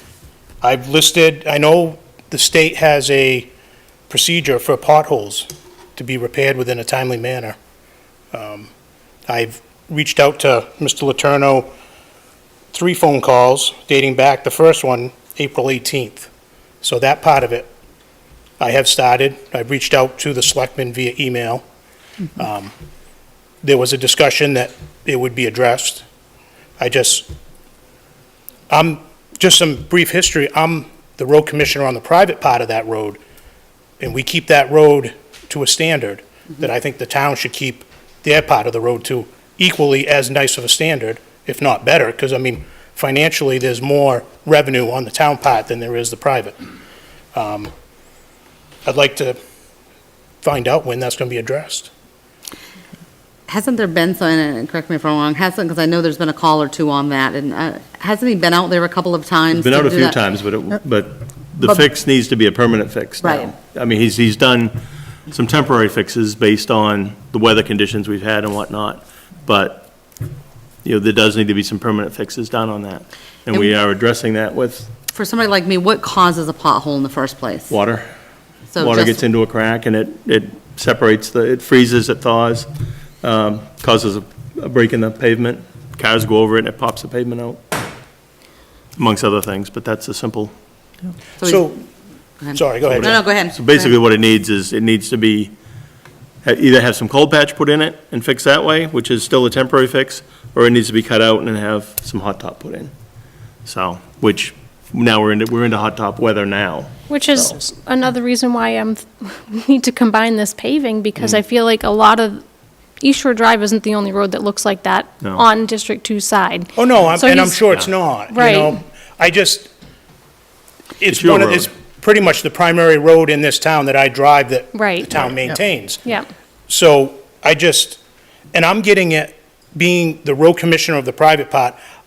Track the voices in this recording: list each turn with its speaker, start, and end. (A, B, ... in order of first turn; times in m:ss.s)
0:00.6-0:03.5 A
0:04.1-0:07.6 A
0:08.3-0:08.7 A
0:09.3-0:11.7 A
0:12.7-0:16.3 A
0:16.8-0:17.7 A
0:18.6-0:21.6 A
0:22.4-0:22.7 A
0:23.6-0:26.0 A
0:26.8-0:27.3 A
0:28.7-0:33.2 A
0:34.0-0:46.6 A
0:47.3-0:47.7 A
0:48.8-0:49.4 A
0:50.4-0:51.9 A
0:53.5-1:00.2 B
0:59.5-1:09.9 C
1:03.2-1:03.5 B
1:10.8-1:14.9 C
1:15.1-1:17.7 B
1:17.7-1:18.0 C
1:18.7-1:19.2 B
1:18.8-1:22.7 C
1:23.2-1:27.6 C
1:29.0-1:30.5 C
1:31.4-1:31.7 B
1:31.4-1:31.8 A
1:32.4-1:34.0 B
1:32.5-1:33.2 A
1:32.9-1:35.5 C
1:36.4-1:42.9 C
1:43.6-1:47.6 C
1:47.1-1:52.4 D
1:53.0-1:57.6 D
1:56.8-1:59.7 A
1:58.3-1:58.8 D
2:01.0-2:06.1 A
2:01.1-2:01.7 C
2:04.7-2:05.2 D
2:06.7-2:08.0 A
2:08.5-2:11.8 A